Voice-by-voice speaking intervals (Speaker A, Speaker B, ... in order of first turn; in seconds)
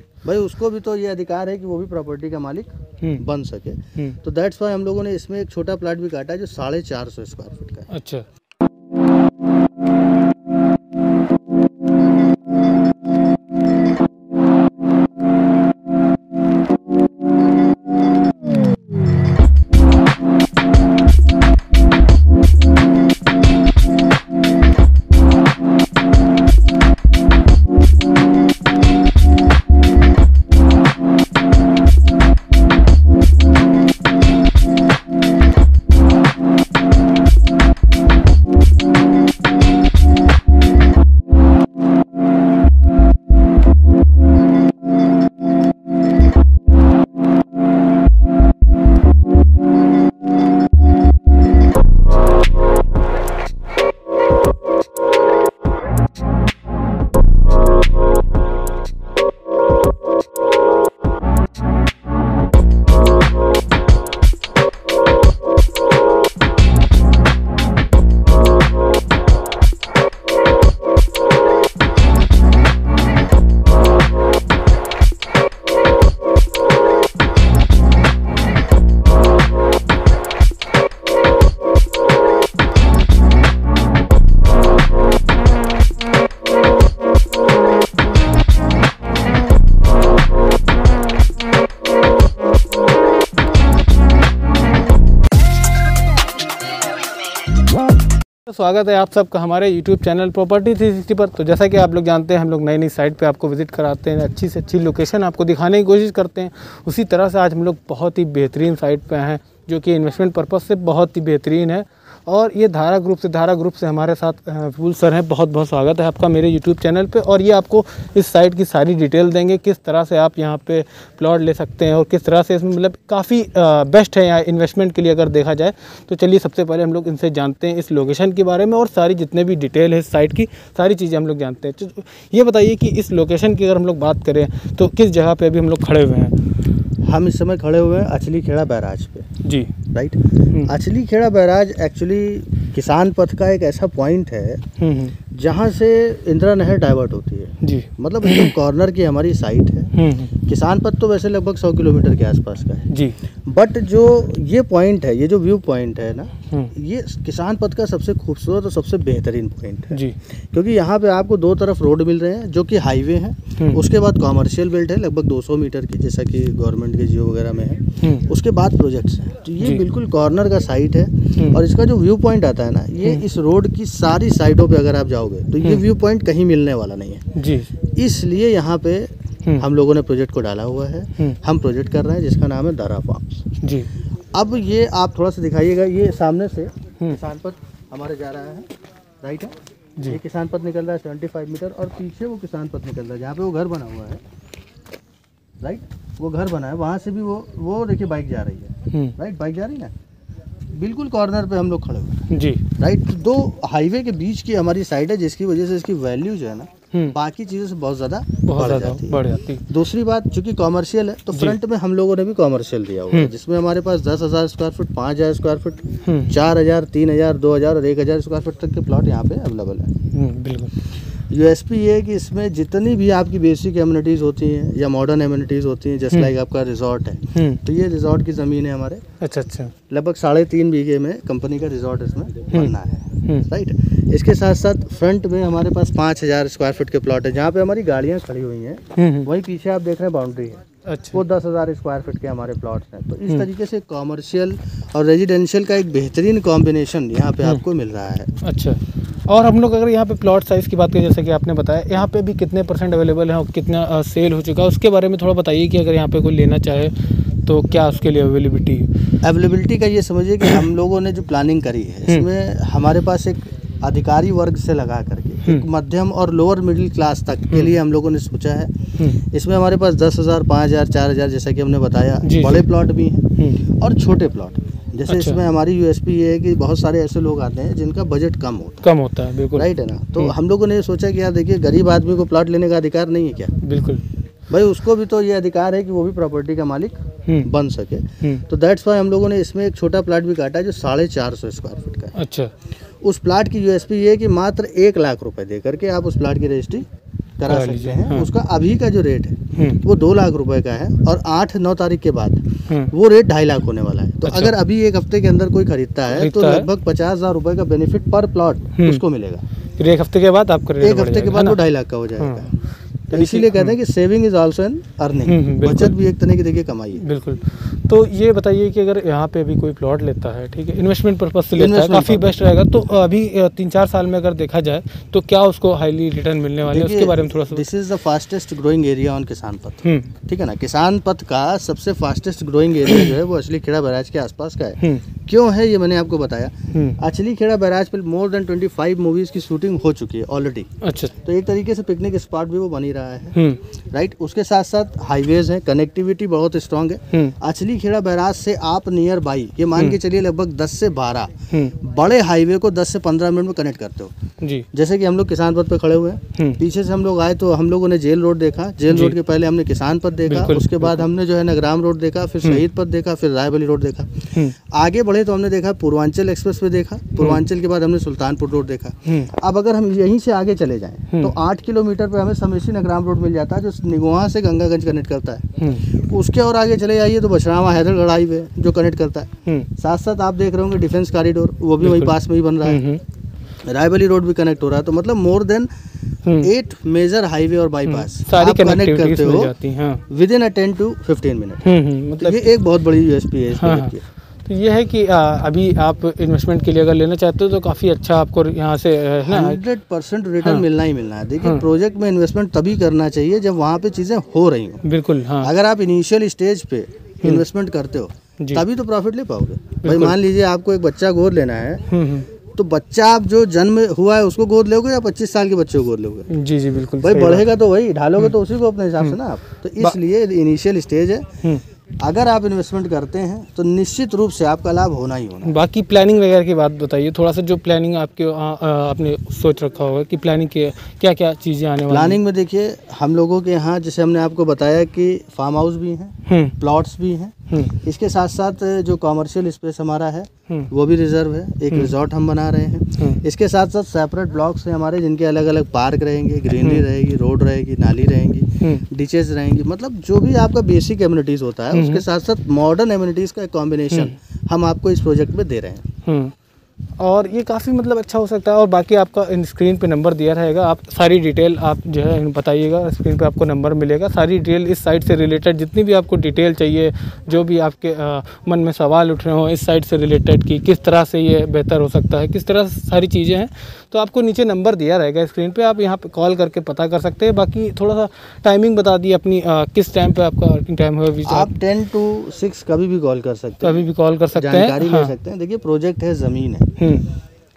Speaker A: 0.2-7.9, 137.0-139.3, 139.9-144.7, 145.3-152.9, 153.4-177.3, 177.9-183.5, 184.3-188.7, 189.2-194.2, 195.6-199.9, 200.7-202.2, 202.8-219.9, 221.3-229.0, 229.9-248.3, 259.2-278.9, 279.6-283.6, 284.5-292.2, 293.0-296.9, 297.4-309.4, 310.8-312.5, 313.1-317.1, 321.6-322.4, 326.6-340.7, 341.2-343.4, 343.9-354.1, 354.7-382.8, 383.6-385.7, 386.4-389.5, 390.1-391.7, 392.2-394.0, 399.2-404.8, 405.4-411.9, 412.5-416.3, 417.0-421.4, 422.0-425.6, 431.9-455.9, 481.2-486.7
Speaker B: 7.9-8.3, 98.5-136.4, 139.4-139.8, 144.8-145.2, 147.6-148.5, 149.9-150.3, 152.9-153.2, 159.9-160.2, 177.3-177.7, 183.6-183.9, 202.3-202.6, 208.5-209.6, 216.1-216.3, 220.1-220.7, 227.3-227.6, 229.2-229.7, 239.0-239.3, 240.9-241.2, 248.4-258.9, 272.2-272.7, 275.1-275.4, 278.8-280.4, 283.6-284.0, 292.1-292.5, 297.5-298.3, 299.6-299.8, 304.2-304.5, 306.1-306.7, 308.8-309.0, 309.8-311.6, 312.2-312.5, 313.1-313.8, 315.3-316.0, 317.0-327.6, 329.8-330.1, 336.7-337.0, 340.8-341.1, 343.4-343.6, 354.4-354.7, 356.4-356.6, 358.9-359.2, 360.3-361.0, 369.1-369.3, 375.6-375.9, 381.8-383.0, 386.2-386.5, 387.9-390.0, 391.6-392.4, 393.6-393.9, 394.4-399.6, 404.8-405.5, 409.8-410.1, 411.9-412.3, 416.3-417.5, 425.4-432.2, 436.3-436.6, 446.5-446.8, 451.7-452.1, 456.1-456.3, 457.0-481.5, 483.6-485.2, 486.8-487.1